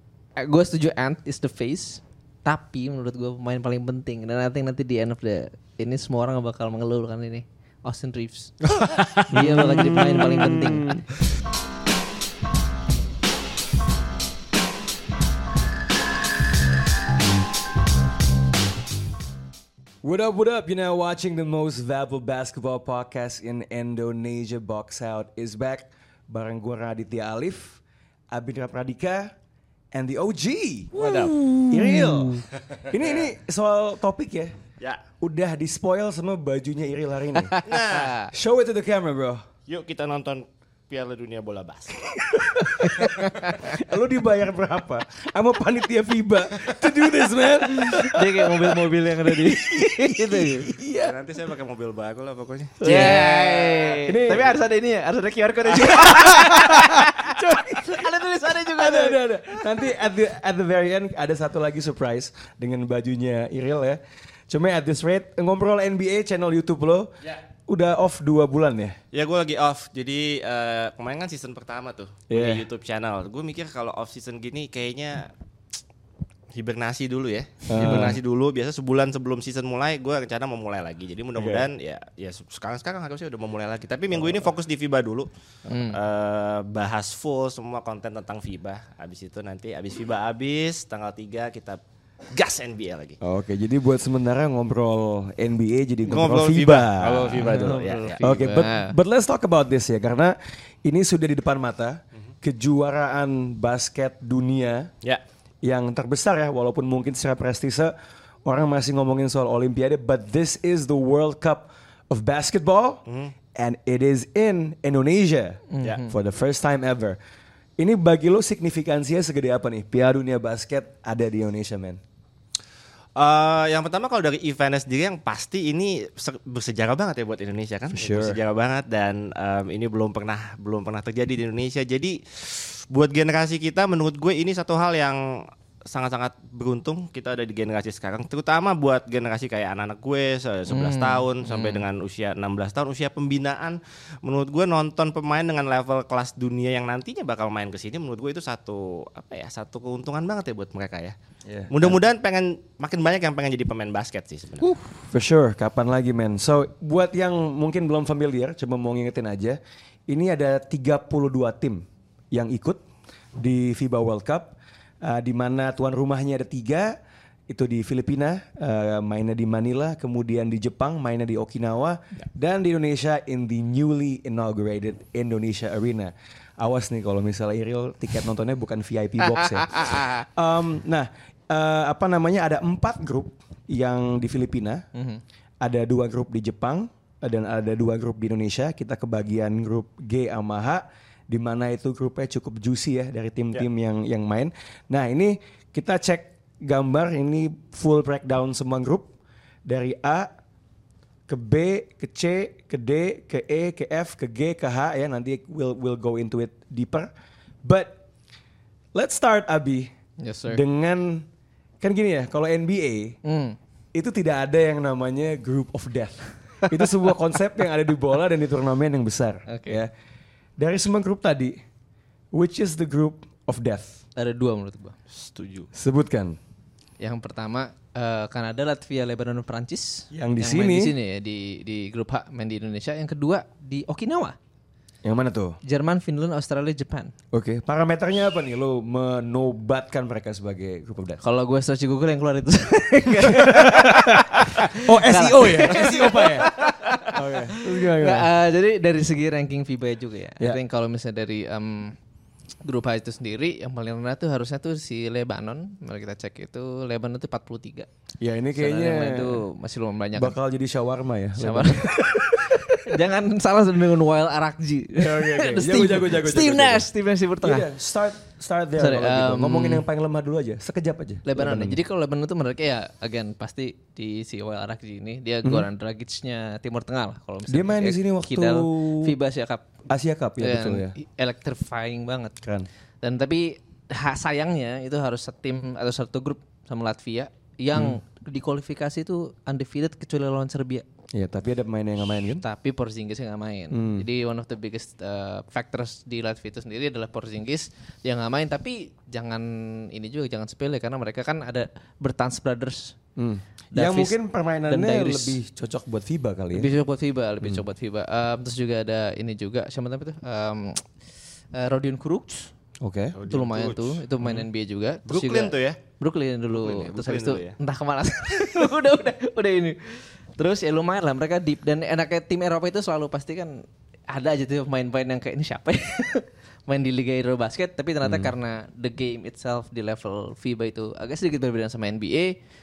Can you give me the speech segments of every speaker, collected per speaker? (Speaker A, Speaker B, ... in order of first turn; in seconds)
Speaker A: 0.4-11.0, 30.9-32.4, 37.5-38.3, 42.7-43.5, 47.8-50.7, 52.8-59.8, 77.8-78.1, 85.7-86.0, 97.3-99.0, 115.7-116.1, 140.7-141.8, 179.6-180.2, 184.9-185.2, 210.2-210.6, 213.2-213.6, 219.5-219.8, 224.2-225.0, 227.0-234.3, 235.7-237.1, 241.2-252.0, 252.7-257.9, 258.6-260.3, 261.4-267.7, 268.8-269.8, 271.2-279.7, 280.4-282.4, 283.0-290.8, 292.4-303.0, 303.7-305.4, 306.5-311.0, 311.5-312.5, 313.3-332.4
Speaker B: 8.8-9.2, 30.9-31.3, 32.7-33.3, 37.6-38.2, 39.7-42.0, 51.0-54.5, 69.1-75.3, 76.5-91.8, 92.3-93.2, 96.0-98.4, 113.1-113.3, 123.2-151.2, 151.7-154.7, 225.1-225.7, 313.2-314.4, 315.1-315.8, 316.6-317.6
Speaker C: 9.3-11.0, 20.0-27.8, 28.3-29.3, 29.9-31.0, 31.7-34.6, 35.2-37.6, 38.3-39.4, 42.2-43.1, 43.6-51.2, 52.8-53.2, 54.0-54.5, 56.0-67.1, 67.7-69.0, 72.3-72.6, 77.7-78.2, 81.4-81.7, 93.2-104.9, 105.6-107.9, 108.4-113.0, 113.5-117.2, 117.8-122.0, 127.9-128.4, 151.5-152.0, 154.6-162.8, 163.4-167.0, 167.5-184.8, 185.6-199.1, 199.7-200.3, 201.3-207.1, 207.6-208.0, 208.9-209.9, 210.5-211.3, 211.8-213.2, 213.9-219.9, 220.6-221.6, 222.3-224.0, 225.7-226.4, 230.1-230.9, 235.0-235.6, 237.3-241.2, 243.3-246.5, 247.1-248.3, 258.2-259.4, 260.1-262.7, 265.0-266.9, 267.4-271.8, 277.5-279.2, 279.9-280.9, 282.4-282.7, 291.1-292.4, 293.7-294.0, 303.2-306.7, 312.8-313.2, 328.0-328.3